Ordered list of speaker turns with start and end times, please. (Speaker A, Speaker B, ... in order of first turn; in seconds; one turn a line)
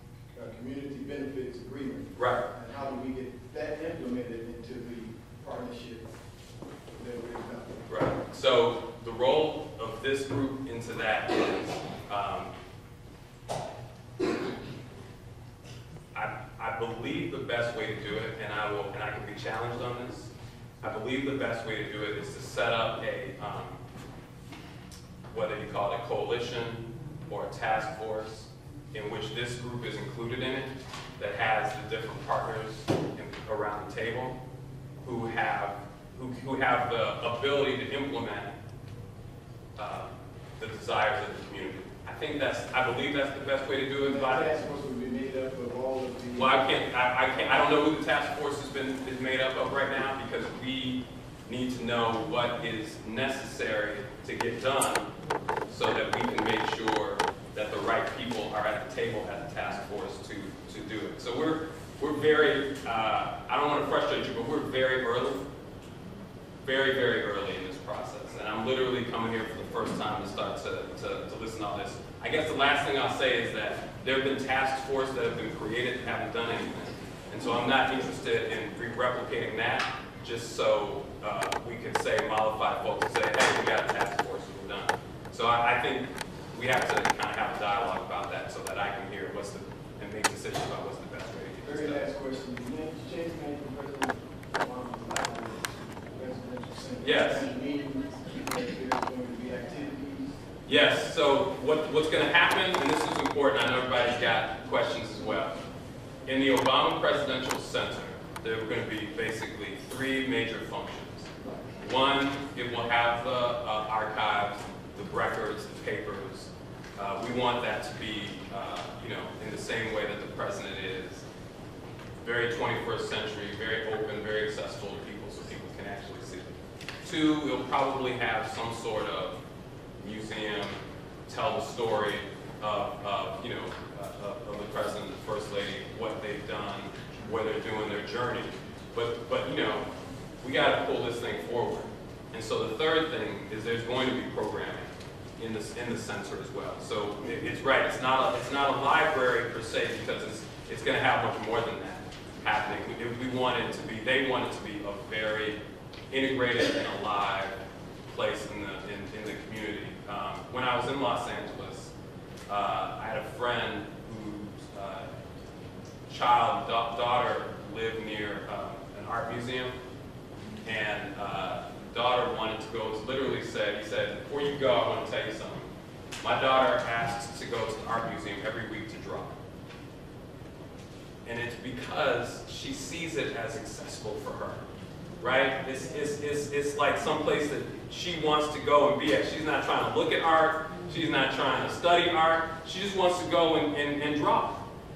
Speaker A: 0.3-6.1
Speaker B: 2.1-2.5
Speaker A: 6.9-7.9
Speaker B: 7.9-12.5
Speaker B: 16.1-23.8
Speaker B: 25.3-34.4
Speaker B: 35.0-38.5
Speaker B: 39.8-44.5
Speaker A: 44.0-46.6
Speaker B: 46.3-55.1
Speaker B: 55.7-65.5
Speaker B: 66.6-92.1
Speaker A: 91.6-100.4
Speaker B: 97.0-97.5
Speaker B: 100.7-105.6
Speaker B: 106.2-121.2
Speaker B: 122.2-129.4
Speaker B: 130.0-139.9
Speaker B: 140.4-155.6
Speaker B: 156.1-161.9
Speaker B: 162.5-165.1
Speaker B: 166.1-169.8
Speaker B: 170.6-179.4
Speaker B: 181.2-184.7
Speaker B: 185.2-194.6